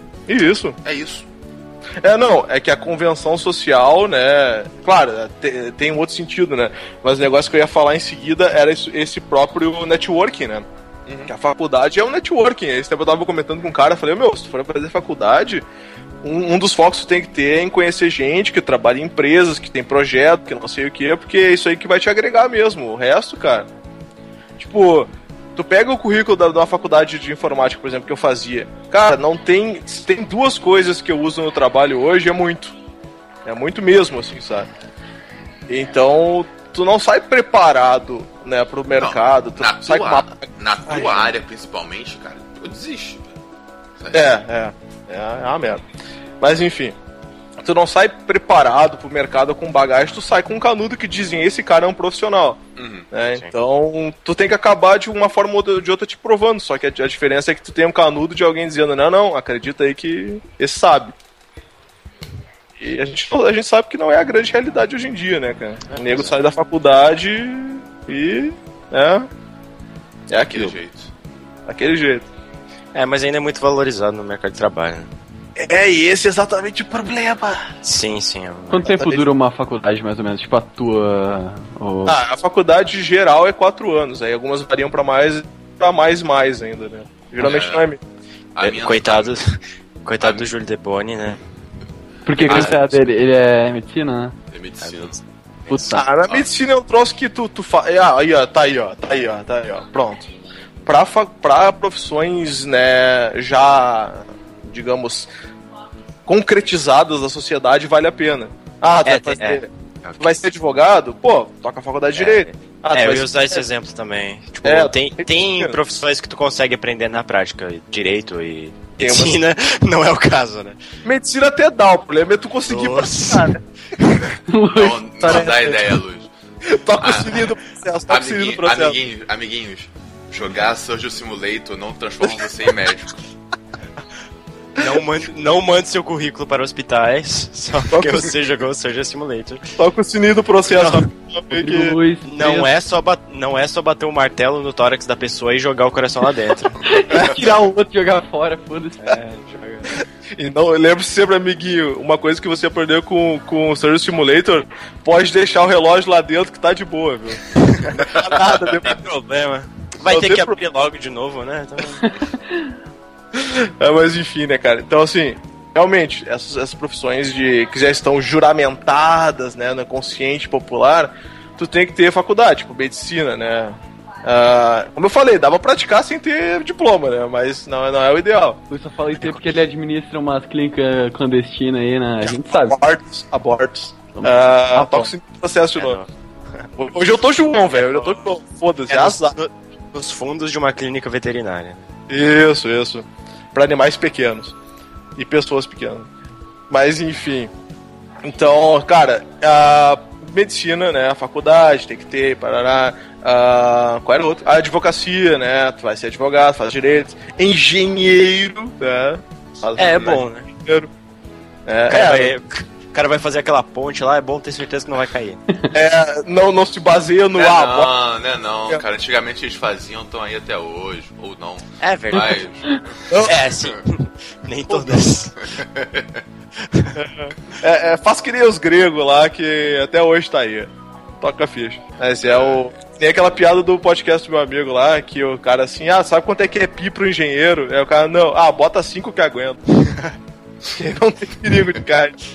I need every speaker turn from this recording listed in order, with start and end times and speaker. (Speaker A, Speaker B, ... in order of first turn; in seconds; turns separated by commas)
Speaker A: 0.3-0.8, Speaker B: 0.8-1.2, Speaker A: 2.0-10.7, Speaker A: 11.2-15.6, Speaker A: 16.2-23.7, Speaker A: 24.6-32.7, Speaker A: 33.4-34.7, Speaker A: 35.7-41.3, Speaker B: 39.0-43.3, Speaker B: 44.0-44.4, Speaker A: 44.1-45.8, Speaker A: 46.4-46.9, Speaker A: 47.6-52.6, Speaker B: 52.8-53.1, Speaker A: 53.1-61.1, Speaker A: 62.8-69.3, Speaker C: 65.9-66.4, Speaker A: 70.3-70.8, Speaker B: 70.4-71.1, Speaker A: 71.7-72.2, Speaker C: 72.9-75.1, Speaker A: 75.6-77.7, Speaker C: 77.8-78.9, Speaker D: 78.7-82.2, Speaker A: 78.8-79.2, Speaker A: 82.0-88.0, Speaker B: 87.4-87.9, Speaker B: 88.5-89.4, Speaker C: 88.6-91.4, Speaker B: 90.2-90.5, Speaker D: 92.2-94.3, Speaker B: 92.4-92.7, Speaker C: 92.4-92.8, Speaker B: 94.5-95.2, Speaker C: 94.8-95.9, Speaker D: 95.7-96.0, Speaker B: 95.8-96.5, Speaker A: 95.9-100.3, Speaker A: 100.8-105.3, Speaker A: 106.2-113.6, Speaker C: 109.0-110.4, Speaker C: 112.1-120.8, Speaker A: 114.6-115.7, Speaker A: 119.0-119.3, Speaker A: 121.0-123.6, Speaker C: 122.7-124.3, Speaker D: 124.5-125.5, Speaker B: 124.7-126.3, Speaker A: 125.2-125.8, Speaker A: 126.7-129.0, Speaker B: 127.0-127.5, Speaker B: 128.1-133.1, Speaker C: 134.8-139.7, Speaker A: 137.9-138.3, Speaker A: 139.8-142.0, Speaker C: 140.7-141.1, Speaker D: 141.5-142.7, Speaker C: 142.2-146.8, Speaker D: 146.8-149.2, Speaker C: 149.0-150.0, Speaker A: 149.9-159.0, Speaker C: 157.5-162.1, Speaker A: 160.1-160.5, Speaker D: 162.3-162.7, Speaker A: 163.3-178.6, Speaker D: 178.7-182.8, Speaker A: 182.2-186.0, Speaker D: 184.1-185.1, Speaker C: 185.8-186.7, Speaker A: 186.8-189.4, Speaker C: 187.7-191.8, Speaker A: 192.1-194.5, Speaker A: 195.2-196.1, Speaker A: 196.7-197.5, Speaker A: 198.2-210.9, Speaker C: 209.8-210.5, Speaker A: 211.7-212.3, Speaker C: 211.9-215.4, Speaker A: 215.7-217.9, Speaker B: 217.3-222.7, Speaker C: 221.8-222.4, Speaker A: 223.1-223.4, Speaker C: 223.2-225.5, Speaker A: 224.7-225.1, Speaker B: 225.4-226.2, Speaker C: 226.6-227.0, Speaker A: 226.9-239.6, Speaker B: 232.2-232.6, Speaker A: 240.7-242.2